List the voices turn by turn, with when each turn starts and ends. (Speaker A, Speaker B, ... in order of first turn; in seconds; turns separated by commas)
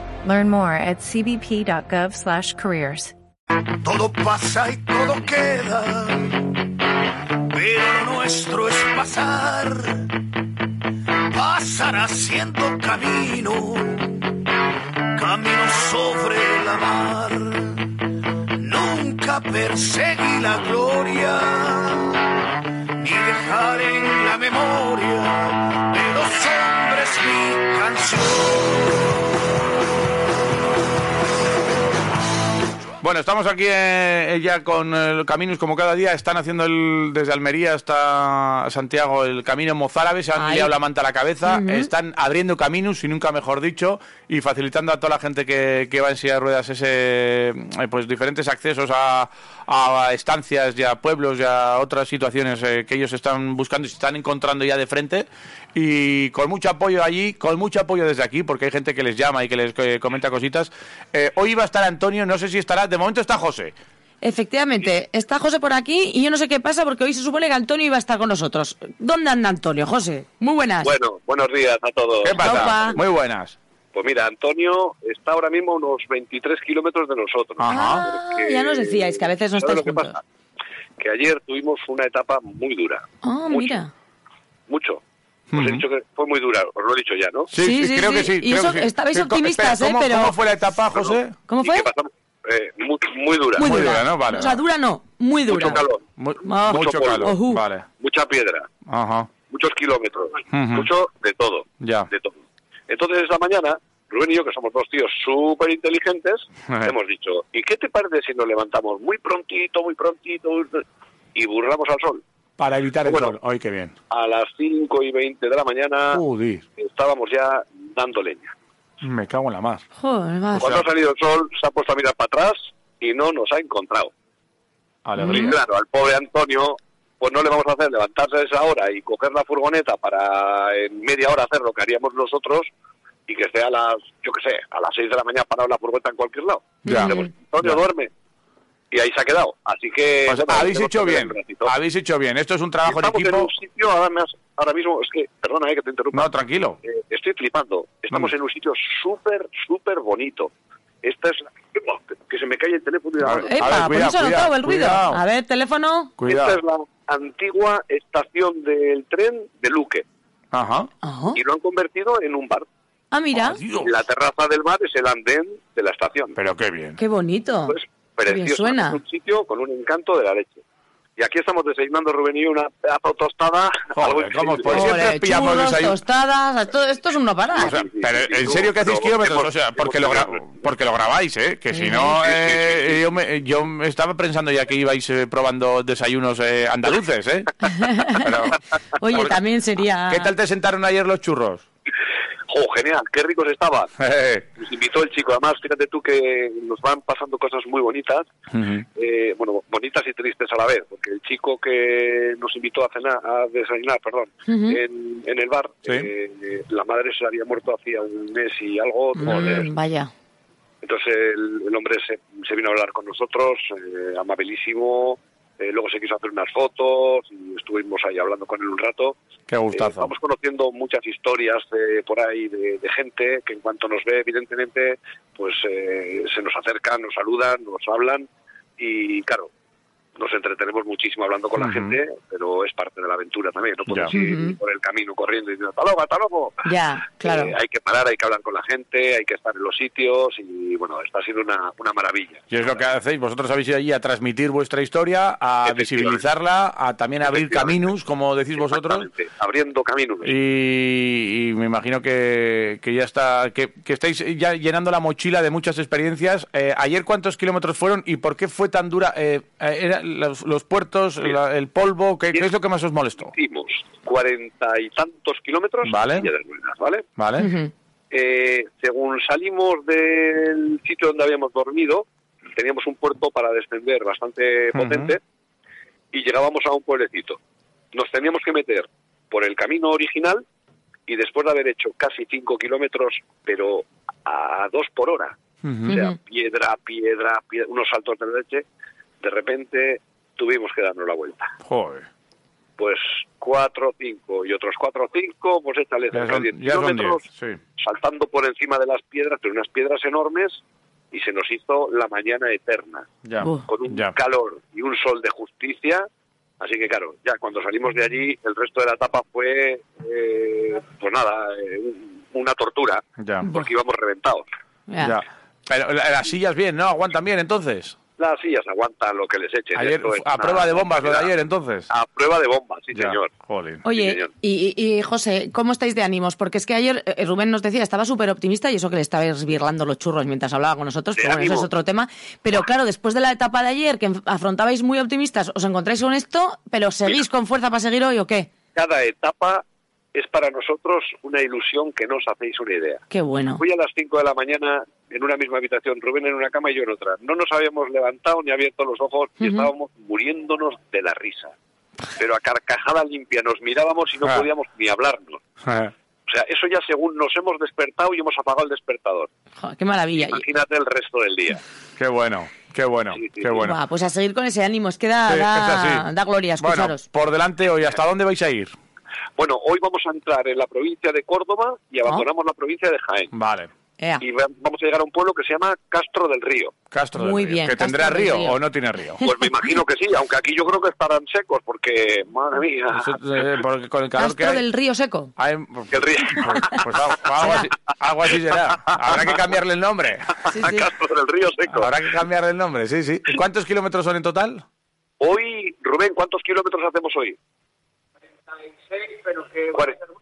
Speaker A: 0.2-3.1, Speaker B: 3.8-6.7, Speaker B: 7.4-10.2, Speaker B: 11.3-14.4, Speaker B: 15.1-22.4, Speaker B: 23.0-28.8, Speaker C: 33.0-63.7, Speaker D: 40.3-40.7, Speaker D: 41.4-41.9, Speaker D: 64.2-70.9, Speaker E: 70.8-73.0, Speaker C: 72.2-73.5, Speaker D: 72.4-73.0, Speaker E: 73.9-80.2, Speaker C: 77.6-78.1, Speaker D: 77.6-80.2, Speaker E: 81.0-83.8, Speaker D: 83.2-83.9, Speaker E: 84.7-85.0, Speaker C: 85.5-85.8, Speaker E: 85.5-87.5, Speaker C: 87.5-91.4, Speaker D: 87.6-90.4, Speaker E: 90.9-93.7, Speaker D: 91.5-91.9, Speaker D: 93.5-95.8, Speaker C: 93.6-94.6, Speaker E: 95.5-96.0, Speaker C: 96.2-97.8, Speaker D: 96.4-97.6, Speaker E: 96.7-97.4, Speaker E: 98.0-98.7, Speaker C: 98.8-99.3, Speaker E: 99.5-110.8, Speaker C: 100.5-100.9, Speaker C: 101.8-102.1, Speaker C: 106.7-106.9, Speaker E: 111.3-112.2, Speaker C: 112.6-113.9, Speaker E: 113.0-113.3, Speaker E: 114.1-116.2, Speaker C: 116.1-116.6, Speaker E: 116.8-118.5, Speaker C: 119.0-119.8, Speaker D: 120.0-120.7, Speaker C: 120.5-120.8, Speaker E: 120.6-124.1, Speaker C: 125.0-125.5, Speaker D: 125.2-125.5, Speaker E: 125.3-132.7, Speaker E: 133.3-138.1, Speaker D: 136.8-137.3, Speaker C: 136.8-137.8, Speaker E: 138.9-141.7, Speaker C: 140.2-143.5, Speaker E: 142.8-146.3, Speaker C: 146.1-146.8, Speaker E: 146.8-150.5, Speaker E: 151.0-153.8, Speaker C: 153.2-155.2, Speaker D: 153.4-156.1, Speaker C: 156.2-156.6, Speaker E: 156.2-160.0, Speaker C: 160.5-160.9, Speaker D: 161.0-161.4, Speaker E: 161.3-162.7, Speaker D: 163.1-163.6, Speaker C: 163.3-164.0, Speaker E: 163.7-166.3, Speaker C: 166.3-167.0, Speaker D: 167.0-169.0, Speaker E: 167.7-170.6, Speaker E: 171.2-175.0, Speaker C: 173.9-176.0, Speaker D: 174.7-177.8, Speaker C: 177.6-189.4, Speaker E: 177.6-180.7, Speaker D: 181.7-182.1, Speaker E: 182.1-183.0, Speaker D: 187.6-188.3, Speaker D: 189.0-190.3, Speaker C: 190.1-191.6, Speaker E: 192.5-193.9, Speaker C: 194.0-194.4, Speaker E: 194.6-198.3, Speaker C: 198.5-198.8, Speaker E: 198.9-209.7, Speaker D: 204.5-204.8, Speaker D: 209.1-210.1, Speaker C: 209.2-209.7, Speaker E: 210.8-219.2, Speaker C: 219.5-220.1, Speaker E: 219.7-228.3, Speaker E: 228.8-229.5, Speaker E: 230.2-236.7, Speaker C: 231.6-232.0, Speaker C: 233.9-234.1, Speaker D: 234.1-234.6, Speaker D: 236.6-237.5, Speaker E: 237.2-242.8, Speaker C: 242.5-249.1, Speaker E: 245.6-246.2, Speaker E: 247.2-247.9, Speaker E: 248.6-250.3, Speaker C: 250.2-263.3, Speaker E: 263.2-267.1, Speaker C: 265.8-266.3, Speaker C: 267.2-267.5, Speaker D: 267.4-267.7, Speaker E: 268.1-275.2, Speaker C: 274.7-275.1, Speaker E: 276.1-277.4, Speaker E: 277.9-280.4, Speaker E: 281.1-285.4, Speaker C: 285.6-285.9, Speaker D: 285.9-286.1, Speaker E: 285.9-288.6, Speaker E: 289.2-291.5, Speaker C: 291.6-292.1, Speaker E: 292.8-297.2, Speaker C: 296.1-297.6, Speaker E: 297.8-300.6, Speaker E: 301.1-303.1, Speaker C: 303.2-304.1, Speaker D: 303.4-303.6, Speaker E: 303.7-306.0, Speaker E: 306.6-314.4, Speaker C: 313.2-313.5, Speaker D: 313.4-313.7, Speaker D: 314.9-315.2, Speaker C: 315.0-317.9, Speaker E: 318.2-321.3, Speaker C: 319.7-321.9, Speaker E: 321.9-323.3, Speaker C: 322.9-323.8, Speaker D: 323.8-338.5, Speaker E: 323.9-324.3, Speaker E: 331.2-331.7, Speaker E: 338.7-339.6, Speaker E: 340.1-343.0, Speaker D: 343.1-343.6, Speaker E: 343.6-351.5, Speaker D: 349.4-349.7, Speaker E: 352.1-355.4, Speaker C: 355.6-355.9, Speaker E: 356.3-359.3, Speaker D: 359.6-360.4, Speaker E: 360.1-361.6, Speaker C: 362.0-363.8, Speaker E: 363.1-363.6, Speaker D: 363.6-367.0, Speaker C: 365.3-366.1, Speaker C: 366.6-368.7, Speaker E: 369.4-373.3, Speaker C: 373.3-373.7, Speaker E: 374.2-376.7, Speaker C: 376.9-379.2, Speaker D: 377.1-379.7, Speaker E: 379.2-383.4, Speaker C: 382.9-384.6, Speaker D: 384.2-385.3, Speaker C: 385.4-390.4, Speaker E: 385.9-386.8, Speaker D: 386.5-386.8, Speaker D: 387.4-387.7, Speaker E: 388.8-389.3, Speaker E: 390.4-391.9, Speaker D: 390.5-390.9, Speaker C: 391.7-394.6, Speaker E: 395.2-397.4, Speaker E: 399.1-400.0